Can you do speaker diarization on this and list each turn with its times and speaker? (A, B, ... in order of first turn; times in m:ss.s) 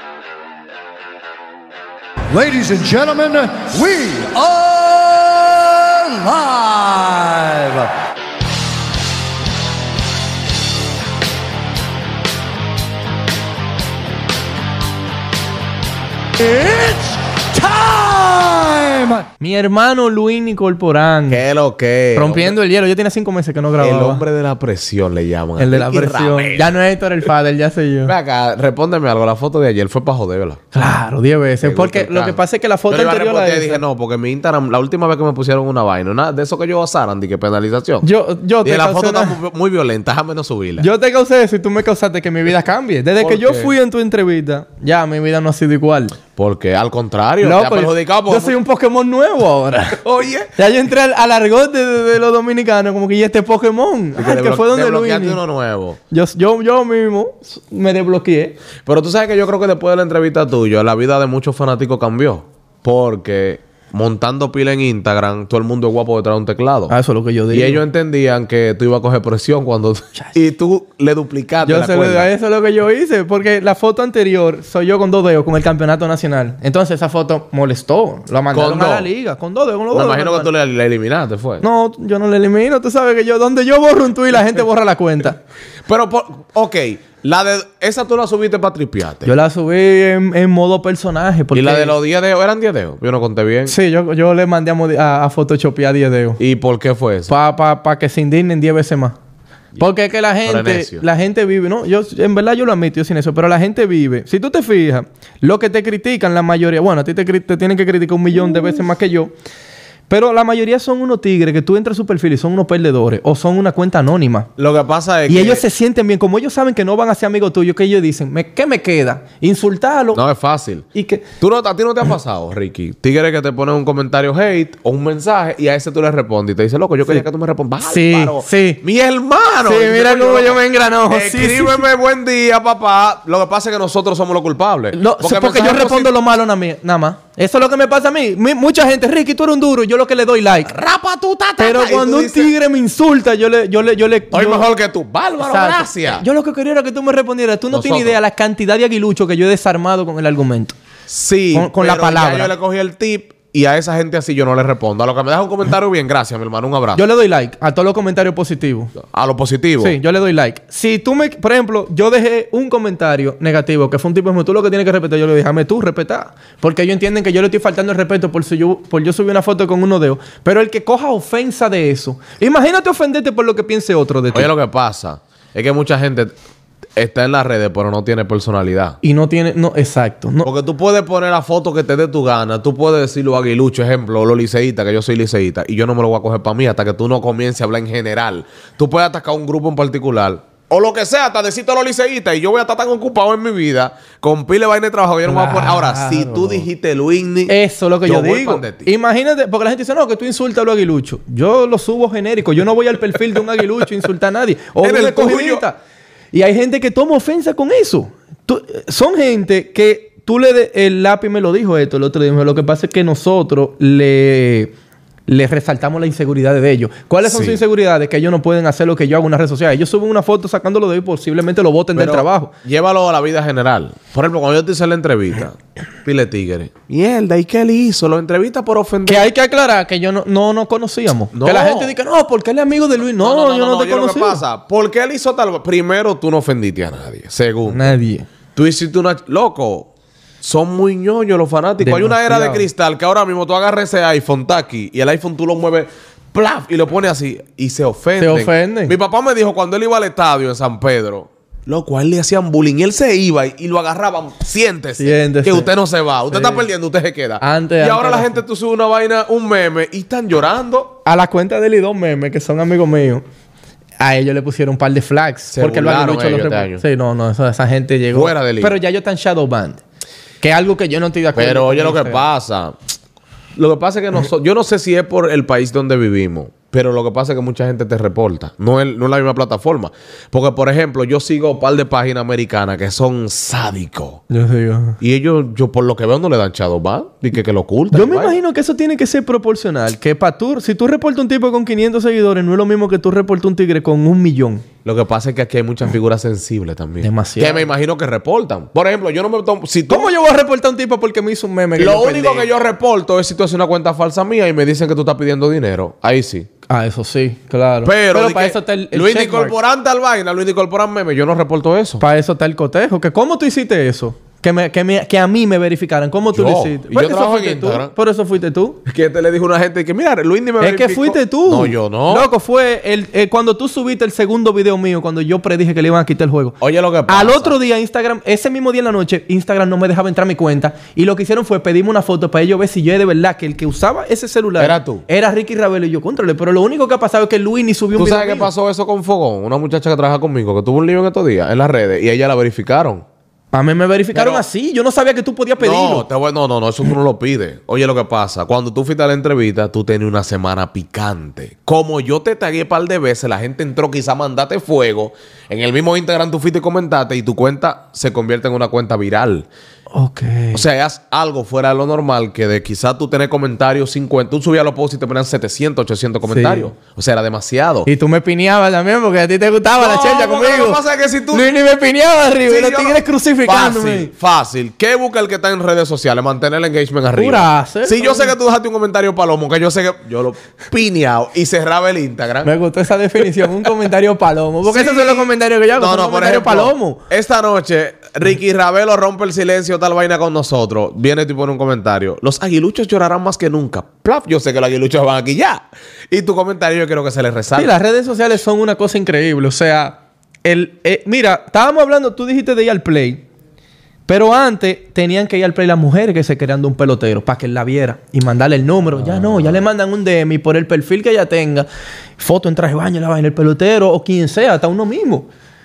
0:02.3-0:07.9 A
0:16.4-0:19.3 A
0:19.4-0:21.4 B
0:21.3-0:22.6 C
0:22.1-0:24.2 B
0:23.8-0:26.8 C
0:25.6-0:28.1 B
0:28.0-0:30.6 C
0:30.7-0:33.8 B
0:31.6-0:38.1 C
0:38.0-0:39.4 B
0:38.6-0:40.9 C
0:40.8-0:46.2 B
0:43.2-0:43.7 C
0:46.3-0:48.6 C
0:47.4-0:50.0 B
0:50.0-0:50.5 C
0:50.6-0:55.4 B
0:54.2-0:56.0 C
0:56.1-0:58.6 B
0:58.8-1:06.9 C
1:06.9-1:07.8 B
1:07.5-1:12.3 C
1:11.6-1:20.5 B
1:18.5-1:19.1 C
1:19.9-1:21.6 C
1:21.6-1:25.4 B
1:25.8-1:29.3 C
1:29.2-1:31.9 B
1:31.5-1:33.8 C
1:33.6-1:36.4 B
1:36.4-1:37.3 C
1:37.3-1:39.2 B
1:39.8-1:49.3 B
1:40.4-1:41.0 C
1:50.1-1:54.5 B
1:54.6-1:55.6 C
1:55.3-2:00.2 B
2:00.1-2:16.1 C
2:00.9-2:01.2 B
2:07.8-2:08.8 B
2:09.6-2:11.9 B
2:14.9-2:20.7 B
2:20.6-2:22.5 C
2:21.6-2:24.7 B
2:24.3-2:26.2 C
2:25.4-2:30.8 B
2:27.7-2:28.2 C
2:31.1-2:37.0 C
2:31.5-2:32.5 B
2:36.9-2:38.9 B
2:39.0-2:40.0 C
2:39.8-2:54.5 B
2:54.3-2:56.3 C
2:57.0-2:59.0 C
2:59.0-3:00.5 B
3:00.4-3:18.9 C
3:15.2-3:16.6 B
3:17.5-3:25.8 B
3:24.8-3:25.6 C
3:26.3-3:34.7 B
3:35.3-3:42.5 B
3:37.2-3:37.6 C
3:41.9-3:49.3 C
3:49.0-3:54.4 B
3:51.3-3:51.9 C
3:53.0-3:57.9 C
3:57.7-3:58.3 B
3:58.5-3:59.9 C
4:00.4-4:21.0 C
4:01.8-4:02.6 B
4:08.2-4:08.9 B
4:15.0-4:15.7 B
4:16.3-4:16.6 B
4:17.4-4:18.4 B
4:21.0-4:23.2 B
4:24.0-4:29.8 B
4:25.5-4:26.8 C
4:28.1-4:28.8 C
4:30.4-4:32.2 B
4:31.3-4:32.8 C
4:33.6-4:44.2 C
4:44.3-4:45.0 B
4:45.0-4:48.4 C
4:47.9-4:54.6 B
4:54.8-5:00.1 C
4:57.0-4:57.7 B
4:59.9-5:02.5 B
5:01.8-5:06.5 C
5:06.7-5:09.5 B
5:07.8-5:12.0 C
5:12.0-5:18.8 B
5:16.3-5:17.9 C
5:18.8-5:22.3 C
5:20.6-5:26.6 B
5:26.6-5:27.6 C
5:27.1-5:38.5 B
5:34.6-5:35.0 C
5:38.0-5:43.0 C
5:43.5-5:46.0 B
5:44.1-5:44.4 C
5:45.6-5:59.5 C
5:59.9-6:00.6 B
6:00.5-6:07.9 C
6:06.2-6:06.7 B
6:07.9-6:10.8 B
6:09.8-6:11.5 C
6:11.3-6:14.1 B
6:12.4-6:22.5 C
6:17.2-6:18.3 B
6:22.4-6:27.0 B
6:24.6-6:37.7 C
6:37.5-6:43.2 B
6:44.1-6:51.7 B
6:49.0-6:49.6 C
6:52.2-6:55.3 B